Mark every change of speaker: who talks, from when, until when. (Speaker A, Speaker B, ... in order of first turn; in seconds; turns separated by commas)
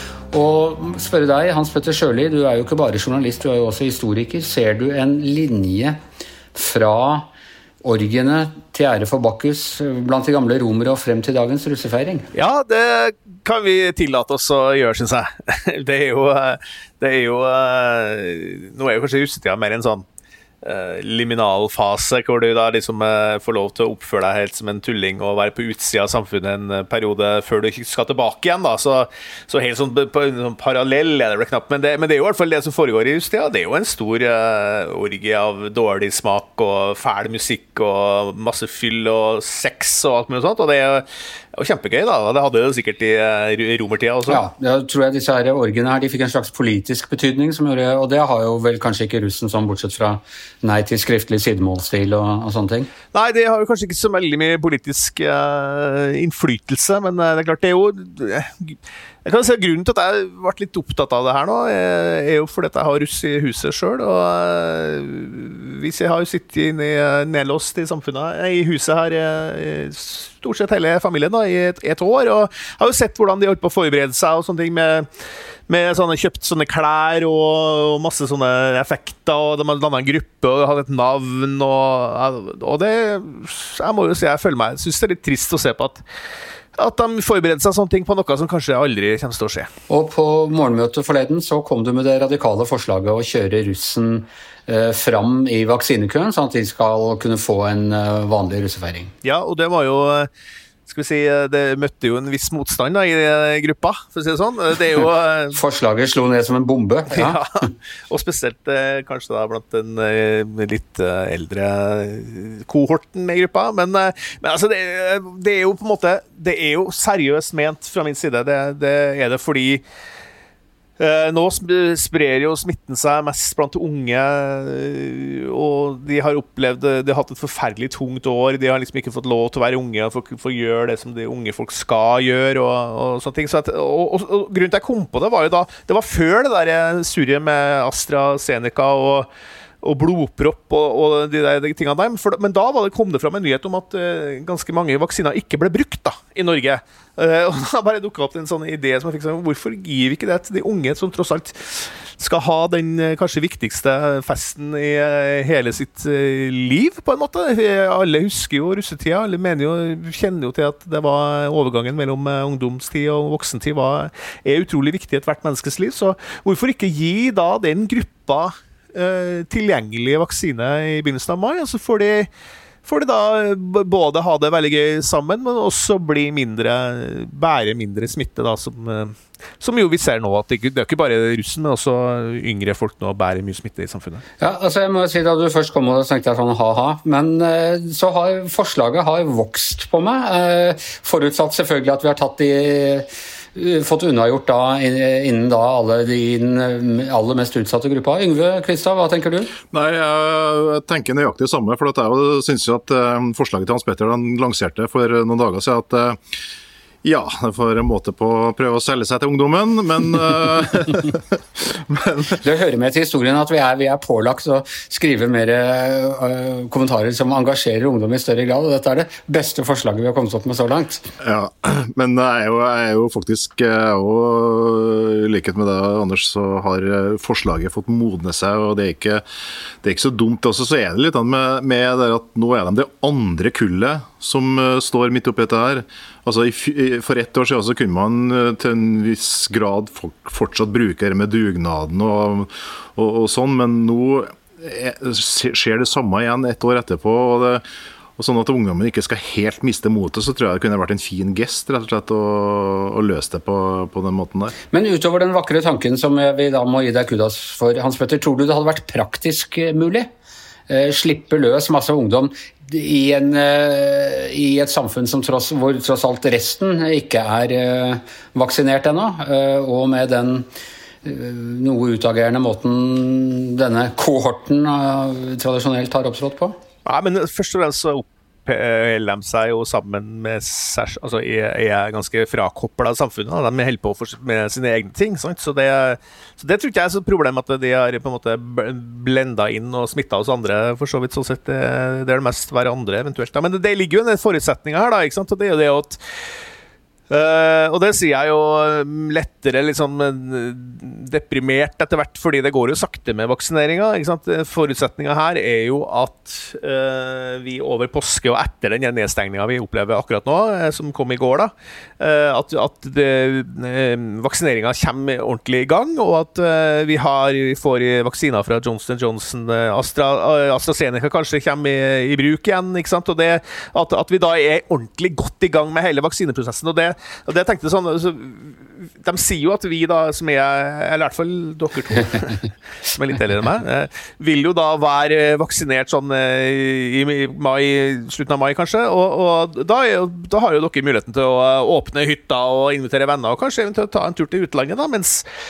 Speaker A: 0.3-6.0, Speaker A: 6.5-7.3, Speaker A: 7.8-12.3, Speaker B: 12.3-20.0, Speaker B: 20.6-44.4, Speaker A: 44.3-52.9, Speaker B: 53.1-75.1, Speaker B: 75.7-86.0, Speaker B: 86.8-89.7, Speaker A: 89.9-99.1, Speaker B: 99.2-100.3, Speaker B: 100.9-105.6, Speaker A: 105.5-107.4, Speaker B: 107.1-107.5, Speaker B: 108.1-119.8, Speaker B: 121.0-139.3, Speaker B: 139.8-172.3, Speaker B: 172.8-184.2, Speaker A: 184.4-199.5, Speaker C: 199.7-206.2, Speaker C: 207.0-212.4, Speaker A: 212.4-221.1, Speaker C: 221.2-229.2, Speaker C: 229.8-247.6, Speaker C: 248.2-254.5, Speaker A: 254.7-260.1, Speaker A: 260.7-270.5, Speaker A: 271.0-276.6, Speaker B: 276.9-296.0, Speaker B: 297.1-345.2